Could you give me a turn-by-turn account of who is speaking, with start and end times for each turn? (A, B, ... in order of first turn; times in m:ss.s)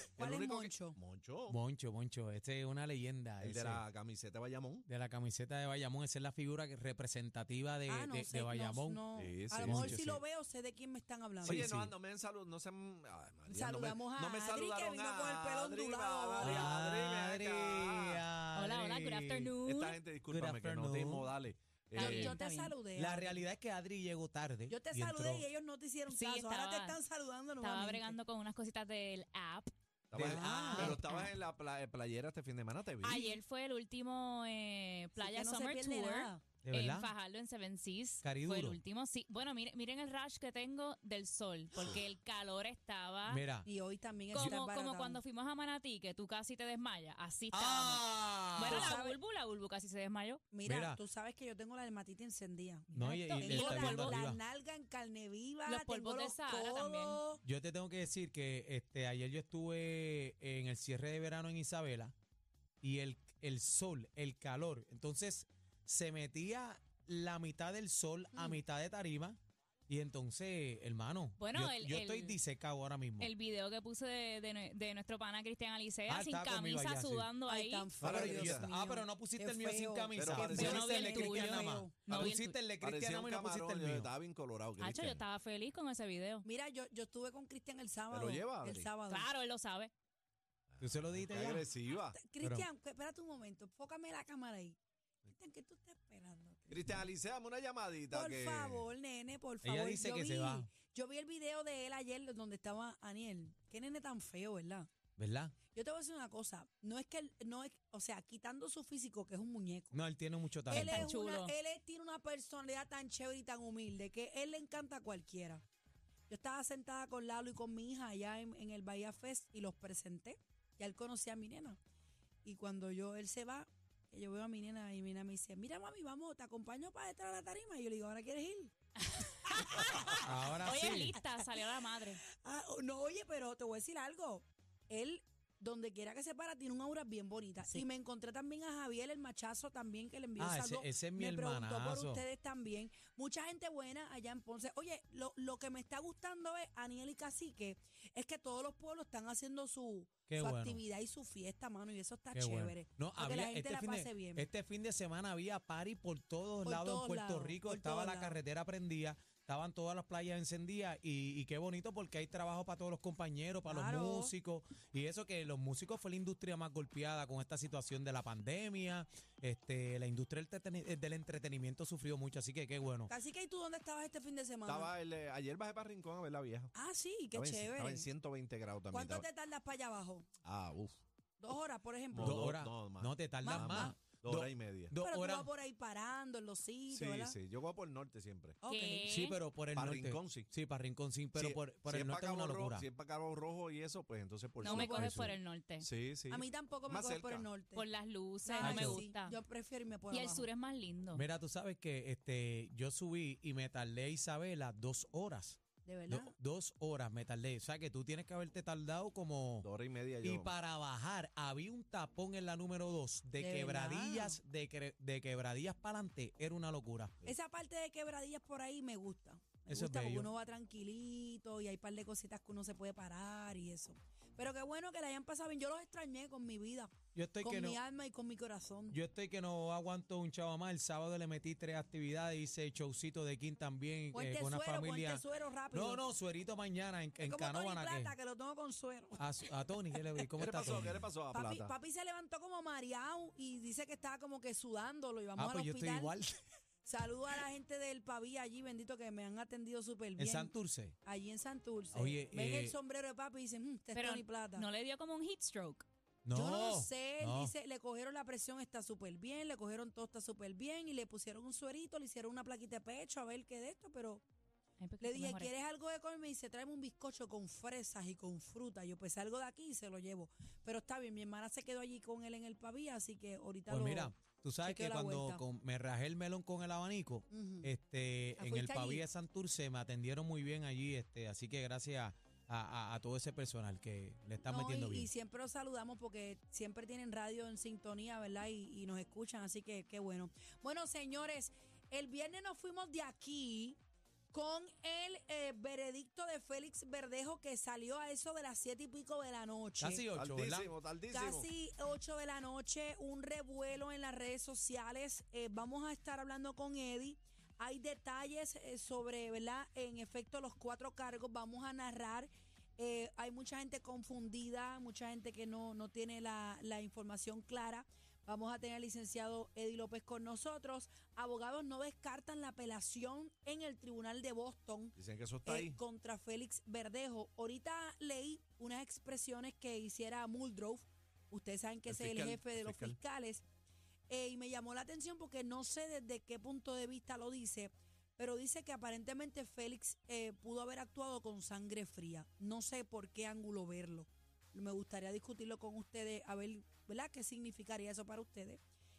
0:00.2-0:01.0 A
0:00.2-0:01.6 B
0:01.5-0:03.8 C
0:03.4-0:04.8 B
0:04.9-0:09.0 C
0:07.9-0:11.6 A
0:09.2-0:10.0 B
0:09.6-0:10.2 C
0:11.4-0:11.9 C
0:11.4-0:18.2 B
0:13.5-0:16.8 A
0:16.4-0:19.5 C
0:18.6-0:20.0 D
0:19.6-0:22.4 B
0:20.3-0:21.3 C
0:22.0-0:22.7 D
0:22.0-0:23.4 A
0:23.0-0:25.5 C
0:24.7-0:28.2 A
0:26.1-0:27.0 D
0:27.6-0:29.7 D
0:30.1-0:33.4 B
0:30.1-0:31.0 C
0:30.2-0:31.0 A
0:33.0-0:43.4 D
0:35.2-0:36.4 A
0:36.6-0:37.1 C
0:38.2-0:38.8 C
0:43.3-0:43.7 C
0:43.6-0:45.2 A
0:44.3-0:50.4 D
0:47.5-0:49.0 C
0:48.6-0:49.2 A
0:50.5-0:57.4 A
0:50.7-0:51.0 C
0:52.9-0:54.4 C
0:53.4-0:54.2 D
0:55.7-0:57.2 D
0:57.4-1:02.1 C
1:02.8-1:09.4 C
1:09.9-1:13.3 C
1:11.4-1:12.4 D
1:13.2-1:17.9 D
1:16.1-1:17.3 C
1:17.5-1:21.9 A
1:18.0-1:18.7 B
1:18.0-1:24.1 C
1:20.2-1:21.0 B
1:20.5-1:22.6 D
1:22.1-1:25.2 B
1:24.8-1:26.4 D
1:26.4-1:29.3 A
1:28.1-1:28.9 B
1:29.1-1:29.9 D
1:30.7-1:32.2 B
1:30.8-1:31.7 C
1:32.1-1:37.0 A
1:32.4-1:32.7 C
1:36.7-1:38.9 B
1:38.1-1:44.9 A
1:39.6-1:40.7 C
1:45.2-1:45.5 C
1:45.7-1:50.0 A
1:49.9-1:51.1 C
1:50.7-1:55.6 A
1:50.7-1:51.5 D
1:56.3-2:01.8 A
2:02.4-2:08.7 A
2:09.1-2:12.2 D
2:09.5-2:11.7 A
2:10.1-2:11.2 C
2:12.3-2:34.5 A
2:20.4-2:22.2 C
2:30.3-2:30.8 C
2:32.3-2:53.1 C
2:36.6-2:38.4 A
2:43.7-2:44.3 A
2:53.1-2:55.0 A
2:54.7-2:56.7 B
2:56.7-2:58.1 A
2:57.3-2:59.2 B
2:58.9-3:00.3 A
3:00.4-3:01.0 B
3:01.4-3:02.5 A
3:02.1-3:04.9 B
3:02.2-3:05.5 C
3:03.4-3:04.0 A
3:04.9-3:07.4 A
3:06.9-3:08.6 B
3:08.6-3:09.1 A
3:08.7-3:09.4 D
3:09.1-3:12.9 C
3:09.7-3:10.5 B
3:11.4-3:15.2 B
3:14.6-3:15.9 D
3:14.6-3:15.4 A
3:15.0-3:15.3 C
3:15.8-3:17.5 B
3:16.3-3:17.9 A
3:17.7-3:19.4 D
3:18.4-3:20.5 A
3:18.6-3:19.0 C
3:20.1-3:21.2 D
3:21.1-3:29.7 C
3:25.8-3:26.3 A
3:29.6-3:30.5 B
3:30.2-3:37.1 C
3:33.4-3:34.4 A
3:37.2-3:49.0 A
3:39.7-3:40.3 C
3:47.1-3:47.8 C
3:48.9-3:58.1 C
3:54.1-3:56.0 A
3:57.2-3:59.2 A
3:59.2-4:01.0 C
4:00.4-4:01.7 B
4:01.3-4:06.2 A
4:05.4-4:06.3 C
4:06.8-4:14.7 A
4:10.2-4:11.0 C
4:11.9-4:12.8 C
4:13.9-4:15.9 D
4:16.2-4:17.5 C
4:16.3-4:24.2 A
4:24.8-4:25.5 D
4:25.0-4:35.4 A
4:33.7-4:45.1 C
4:37.3-4:37.7 A
4:38.4-4:39.1 A
4:44.4-4:53.8 A
4:54.3-5:00.0 A
4:59.8-5:00.7 C
5:00.2-5:01.5 B
5:01.1-5:33.4 A
5:25.0-5:25.8 B
5:31.9-5:33.0 B
5:34.1-5:48.6 A